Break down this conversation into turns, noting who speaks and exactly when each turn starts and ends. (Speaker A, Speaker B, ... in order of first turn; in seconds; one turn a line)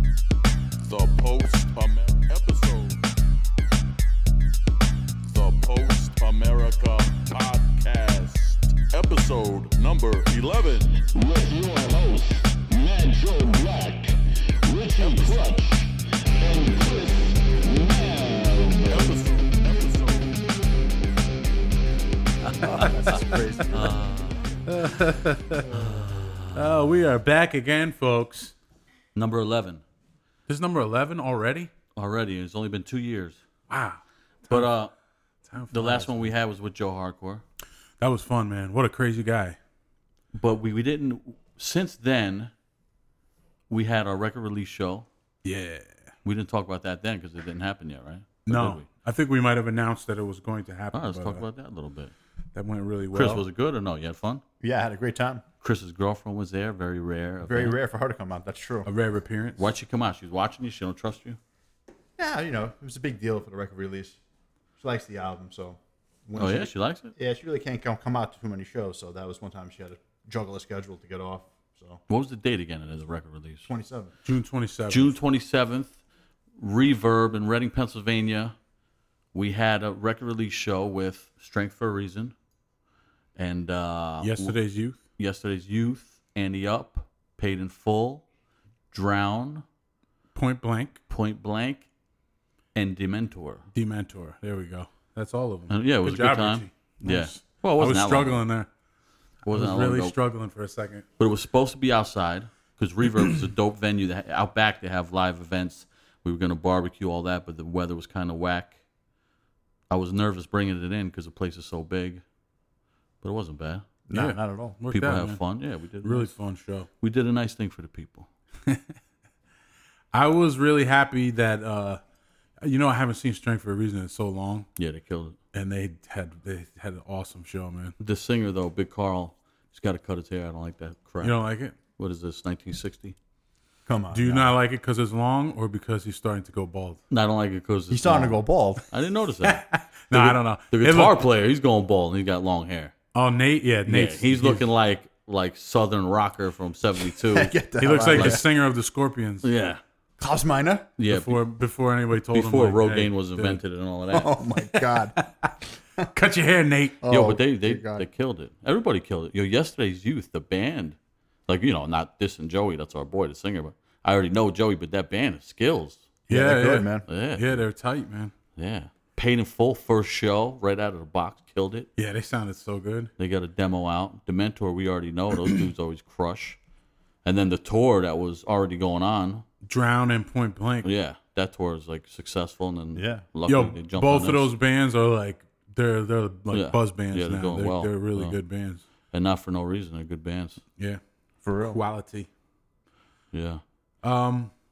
Speaker A: 0.9-1.8
Speaker B: 0.9-3.0
Speaker A: 5.3-6.2
Speaker B: 5.4-11.0
Speaker A: 10.5-19.6
Speaker B: 15.0-15.5
Speaker B: 18.9-20.4
Speaker C: 22.5-23.1
Speaker D: 22.6-24.0
Speaker E: 22.7-23.4
Speaker C: 23.7-24.6
Speaker E: 24.7-25.8
Speaker C: 25.7-26.6
Speaker E: 26.5-28.6
Speaker C: 29.1-29.8
Speaker E: 30.5-31.7
Speaker C: 32.0-33.4
Speaker E: 33.7-34.7
Speaker C: 34.5-34.9
Speaker E: 35.5-36.3
Speaker C: 35.7-37.4
Speaker E: 38.0-39.6
Speaker C: 40.3-42.5
Speaker C: 43.7-45.1
Speaker E: 45.4-46.0
Speaker C: 46.2-48.9
Speaker E: 48.5-51.5
Speaker C: 50.9-52.1
Speaker E: 52.5-53.5
Speaker C: 53.1-54.4
Speaker D: 54.6-55.4
Speaker C: 55.6-57.8
Speaker D: 57.4-58.9
Speaker E: 58.9-59.7
Speaker C: 59.6-61.4
Speaker D: 62.2-64.2
Speaker D: 64.8-72.0
Speaker C: 66.4-67.1
Speaker C: 72.1-73.7
Speaker D: 73.7-74.2
Speaker E: 74.2-75.2
Speaker C: 74.9-76.0
Speaker C: 76.6-78.5
Speaker C: 79.3-82.3
Speaker C: 83.4-84.6
Speaker E: 84.2-85.0
Speaker C: 85.2-88.2
Speaker C: 88.9-89.7
Speaker E: 90.3-91.0
Speaker C: 91.1-91.9
Speaker C: 92.8-93.7
Speaker E: 93.7-98.7
Speaker C: 95.7-98.4
Speaker C: 99.5-100.2
Speaker E: 99.5-101.1
Speaker C: 101.2-108.8
Speaker C: 109.9-112.2
Speaker C: 113.2-113.9
Speaker D: 114.1-114.8
Speaker E: 114.1-115.4
Speaker C: 114.9-116.3
Speaker E: 116.0-116.9
Speaker C: 117.0-118.3
Speaker E: 120.1-122.0
Speaker E: 122.6-124.7
Speaker C: 124.8-125.4
Speaker E: 125.5-128.0
Speaker C: 128.0-131.4
Speaker E: 131.2-131.8
Speaker C: 132.0-133.2
Speaker D: 133.9-134.6
Speaker E: 134.1-137.0
Speaker C: 137.1-142.9
Speaker D: 137.9-138.8
Speaker E: 139.4-141.2
Speaker E: 143.1-144.6
Speaker C: 143.9-147.6
Speaker D: 147.3-148.4
Speaker E: 147.8-149.5
Speaker C: 148.1-148.4
Speaker C: 149.4-149.8
Speaker D: 150.2-150.9
Speaker C: 151.0-151.4
Speaker E: 151.1-153.6
Speaker C: 152.3-154.4
Speaker D: 154.1-155.2
Speaker E: 154.7-157.0
Speaker D: 157.0-158.1
Speaker C: 157.1-161.0
Speaker C: 161.5-166.1
Speaker D: 166.3-167.1
Speaker E: 166.3-168.3
Speaker C: 167.1-167.5
Speaker C: 168.6-171.9
Speaker E: 172.0-173.1
Speaker C: 173.2-176.6
Speaker C: 177.2-179.4
Speaker E: 179.7-180.9
Speaker C: 180.8-184.5
Speaker D: 182.9-183.3
Speaker E: 183.5-188.8
Speaker C: 186.5-188.4
Speaker C: 189.1-190.6
Speaker D: 191.4-191.8
Speaker E: 191.6-192.3
Speaker C: 193.3-193.6
Speaker E: 194.0-194.5